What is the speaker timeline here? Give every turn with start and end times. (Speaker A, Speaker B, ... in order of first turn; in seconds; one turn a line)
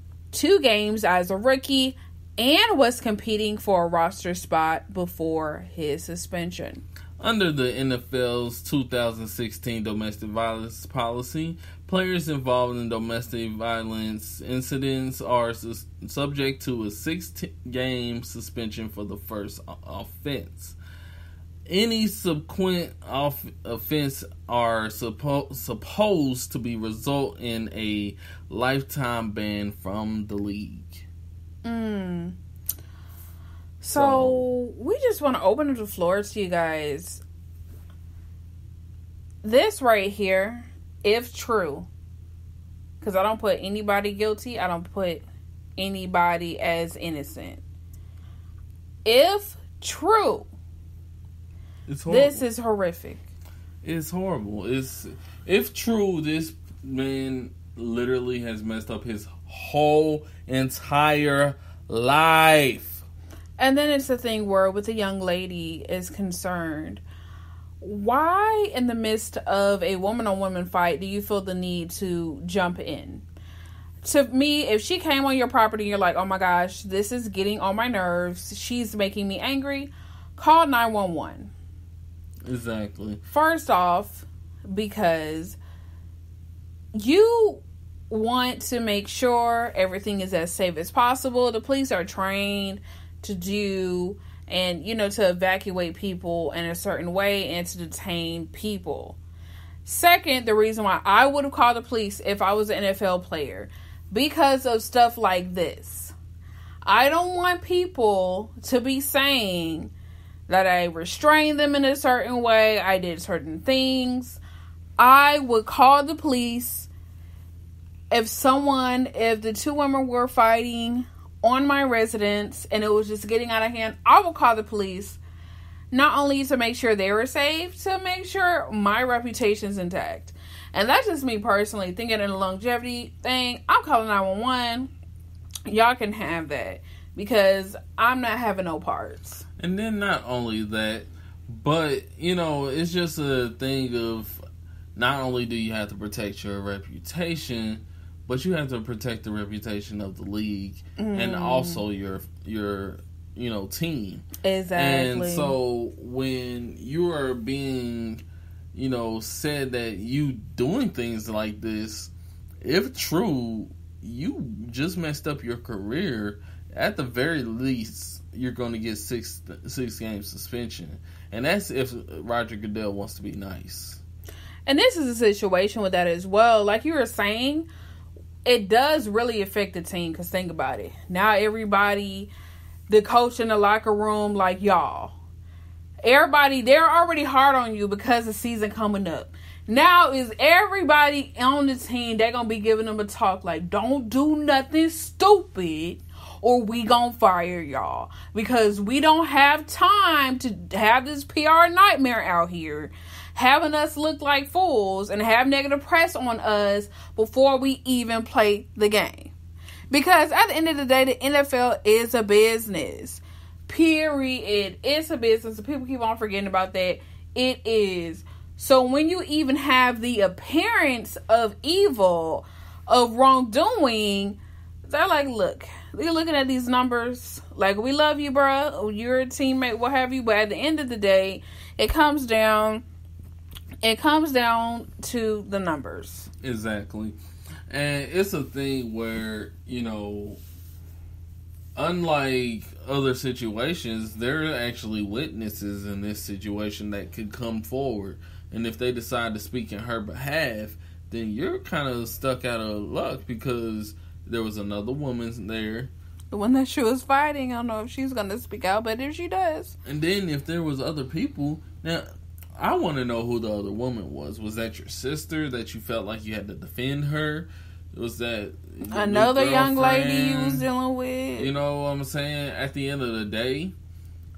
Speaker A: 0.3-6.8
Speaker B: 7.2-20.8
Speaker B: 21.7-31.1
Speaker A: 31.6-32.3
Speaker A: 33.8-37.2
Speaker B: 33.9-34.5
Speaker A: 39.4-41.9
Speaker A: 43.0-45.2
Speaker A: 45.8-47.6
Speaker A: 49.0-50.5
Speaker B: 51.9-52.4
Speaker A: 52.1-53.2
Speaker B: 53.8-63.0
Speaker A: 63.6-67.0
Speaker A: 67.8-73.2
Speaker A: 74.0-81.5
Speaker B: 82.4-83.2
Speaker A: 83.3-85.6
Speaker A: 86.9-99.2
Speaker A: 99.8-106.1
Speaker A: 106.8-109.9
Speaker A: 110.5-114.4
Speaker A: 115.0-116.9
Speaker A: 118.1-125.2
Speaker A: 125.9-134.9
Speaker A: 135.7-139.4
Speaker B: 139.6-144.4
Speaker B: 144.9-158.2
Speaker A: 151.0-151.8
Speaker A: 154.4-155.6
Speaker B: 158.7-162.1
Speaker B: 162.6-174.0
Speaker A: 174.7-177.7
Speaker A: 178.4-182.3
Speaker A: 182.9-185.2
Speaker A: 186.0-209.3
Speaker A: 209.9-232.8
Speaker A: 233.8-236.3
Speaker B: 236.4-237.2
Speaker B: 237.7-240.4
Speaker B: 241.8-255.9
Speaker A: 256.3-259.8
Speaker B: 259.9-262.1
Speaker B: 262.6-270.7
Speaker A: 268.9-271.5
Speaker B: 271.4-273.7